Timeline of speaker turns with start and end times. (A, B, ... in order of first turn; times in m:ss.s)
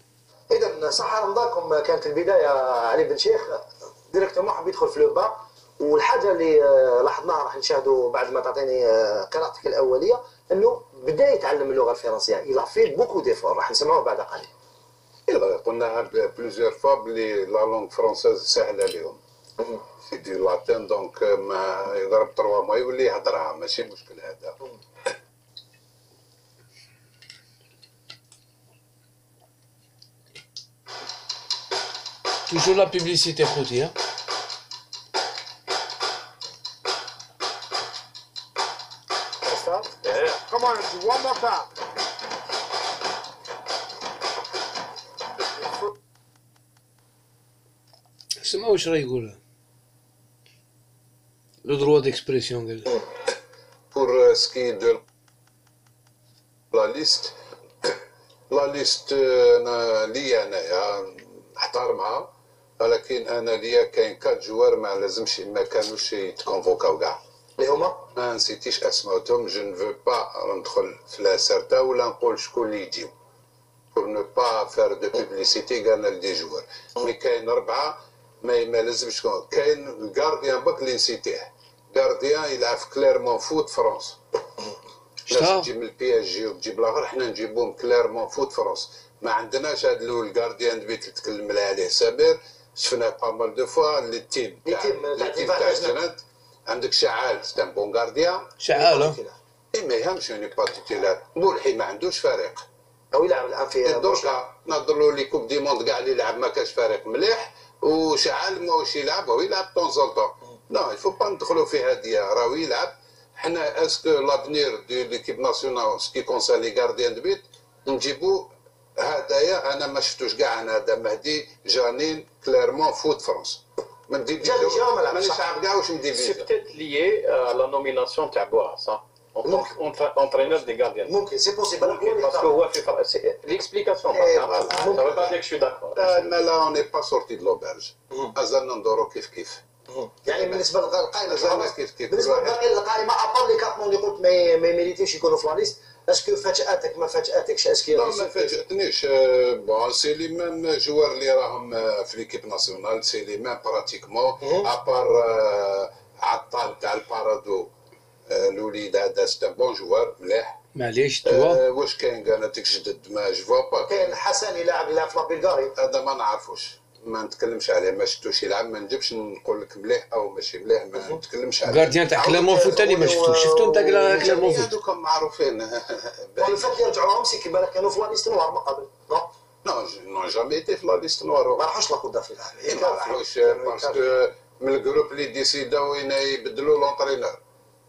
0:00.5-0:14.5 A
0:15.3-0:19.2 B
0:20.1-0:24.6 B
0:32.4-0:33.9 C
0:39.4-0:41.4 A
0:40.1-0:40.4 D
0:45.6-0:45.9 A
0:48.4-0:49.4 C
0:51.6-0:53.0 C
0:53.9-0:55.0 B
0:56.7-0:57.9 B
0:58.5-1:07.2 B
1:07.6-1:08.0 A
1:08.1-1:13.1 B
1:13.9-1:24.2 B
1:25.3-1:25.7 C
1:25.3-1:38.5 B
1:34.6-1:36.0 A
1:38.6-1:39.2 C
1:38.7-1:39.4 A
1:39.7-1:42.6 B
1:43.1-1:44.4 A
1:43.8-2:06.5 B
2:04.4-2:05.5 A
2:06.0-2:11.2 D
2:09.4-2:09.8 A
2:11.1-2:12.6 A
2:11.8-2:16.4 D
2:14.1-2:15.4 A
2:14.5-2:14.8 B
2:16.0-2:19.6 B
2:20.0-2:28.5 A
2:20.4-2:20.7 B
2:21.2-2:22.6 B
2:27.9-2:37.7 B
2:34.4-2:34.7 A
2:38.3-2:40.6 B
2:40.7-2:41.6 C
2:41.2-2:44.2 B
2:43.8-2:45.7 A
2:45.7-2:53.0 B
2:51.6-2:54.7 C
2:52.3-2:54.6 A
2:54.1-2:56.8 B
2:56.4-2:59.3 A
2:59.6-3:01.7 B
3:01.6-3:04.1 A
3:02.6-3:07.4 B